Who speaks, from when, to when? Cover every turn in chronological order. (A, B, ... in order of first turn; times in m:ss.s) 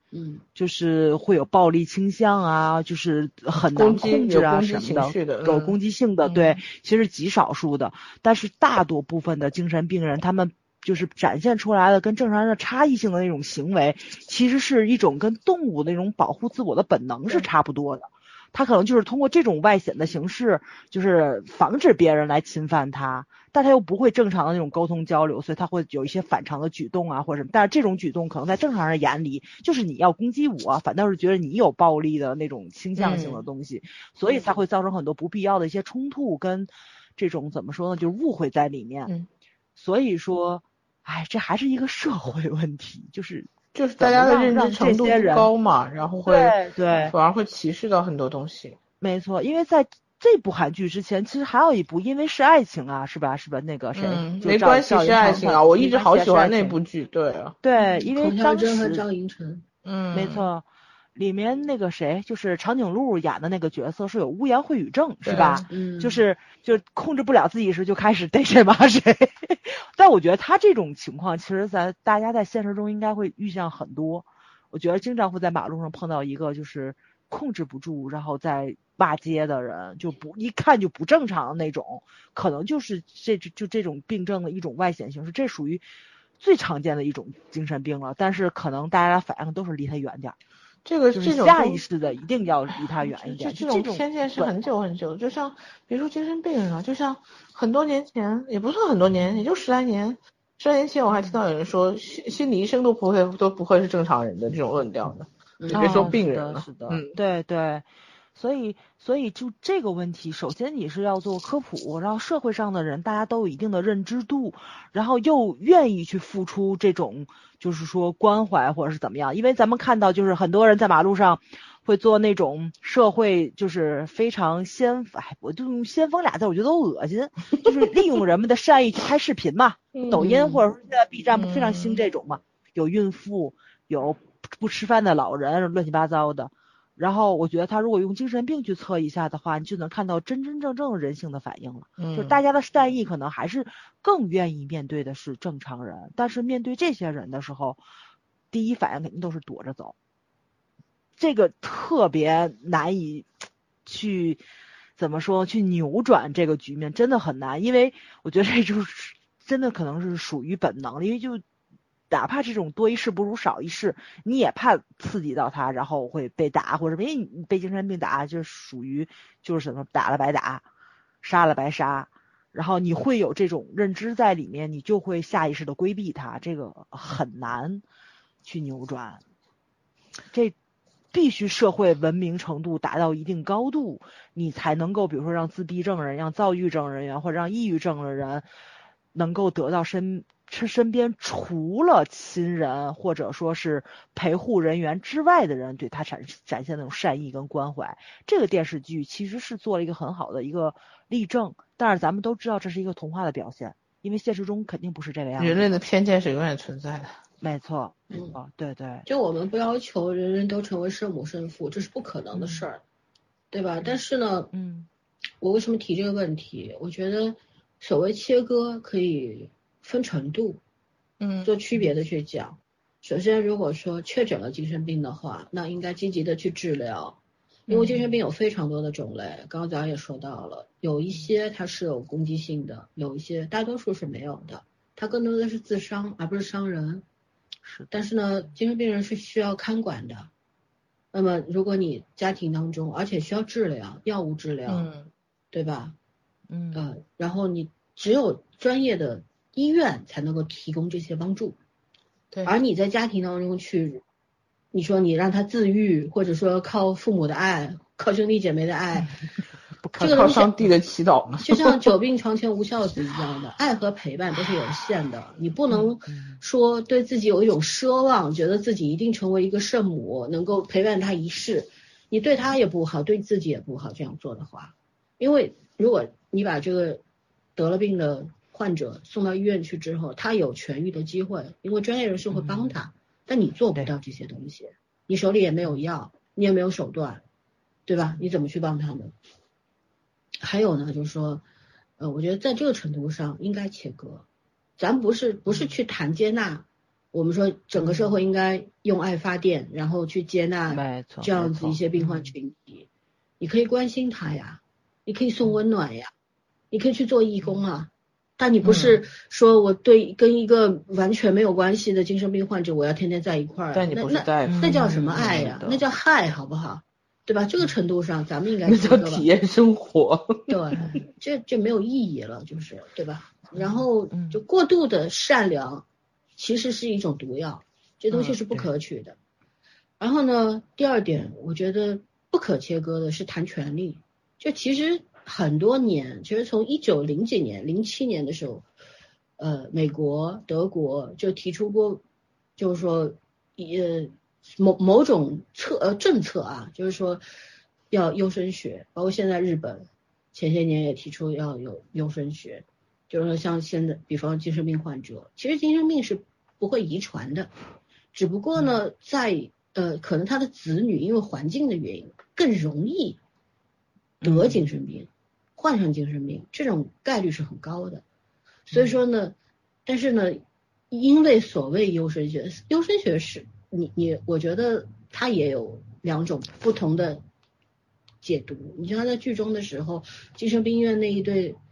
0:00.1-0:00.4 A
0:00.5-0:39.1 B
0:03.7-0:06.6 C
0:33.0-0:33.4 C
0:39.8-0:45.5 B
0:43.7-0:48.8 C
0:46.2-0:47.1 B
0:49.0-0:56.8 B
0:54.0-0:57.6 C
0:57.6-0:59.0 B
0:58.0-0:59.6 A
0:59.8-1:00.5 C
1:00.1-1:00.6 B
1:01.1-1:25.8 B
1:05.2-1:05.6 C
1:05.7-1:06.2 A
1:26.4-1:30.4 B
1:30.8-1:31.8 C
1:31.1-1:34.7 B
1:33.0-1:47.2 C
1:45.6-1:46.2 A
1:45.7-2:27.8 B
2:09.9-2:10.6 C
2:11.3-2:12.0 C
2:22.0-2:22.4 C
2:28.5-2:29.9 B
2:31.2-2:33.3 B
2:33.8-2:34.4 B
2:35.0-2:41.4 B
2:42.1-2:50.6 B
2:51.2-2:57.8 B
2:58.4-2:59.2 B
3:01.1-3:08.4 B
3:09.1-3:25.7 B
3:25.4-3:27.2 C
3:27.4-3:29.0 B
3:29.0-3:32.8 A
3:32.3-3:32.6 B
3:33.5-3:34.5 A
3:34.5-3:34.9 B
3:35.4-3:40.6 A
3:41.2-3:41.5 C
3:41.4-3:47.2 A
3:47.7-3:57.0 A
3:57.6-3:57.9 B
3:57.9-4:00.3 A
4:01.1-4:04.9 A
4:04.7-4:05.1 C
4:05.5-4:05.9 A
4:06.5-4:06.8 B
4:06.7-4:11.6 A
4:12.4-4:14.0 A
4:14.7-4:19.1 A
4:19.8-4:20.2 B
4:20.0-4:20.5 A
4:20.0-4:21.8 C
4:21.4-4:37.0 A
4:26.1-4:26.4 B
4:37.6-4:47.2 A
4:42.3-4:42.8 B
4:47.8-4:49.1 A
4:50.4-4:51.4 A
4:52.0-4:54.2 A
4:54.8-5:02.8 A
4:57.8-4:58.1 B
5:00.7-5:02.3 B
5:03.4-5:06.1 A
5:06.7-5:19.3 A
5:08.6-5:09.0 B
5:13.7-5:15.8 C
5:14.4-5:15.5 B
5:18.6-5:20.5 C
5:20.5-5:25.8 A
5:23.6-5:24.4 B
5:26.4-5:29.2 A
5:30.0-5:38.6 A
5:39.4-5:42.0 A
5:42.6-5:47.2 A
5:47.9-5:57.5 A
5:58.1-6:03.2 A
6:04.2-6:04.6 B
6:04.2-6:08.0 A
6:08.7-6:09.3 A
6:08.7-6:09.0 B
6:09.8-6:17.2 A
6:18.2-6:21.6 A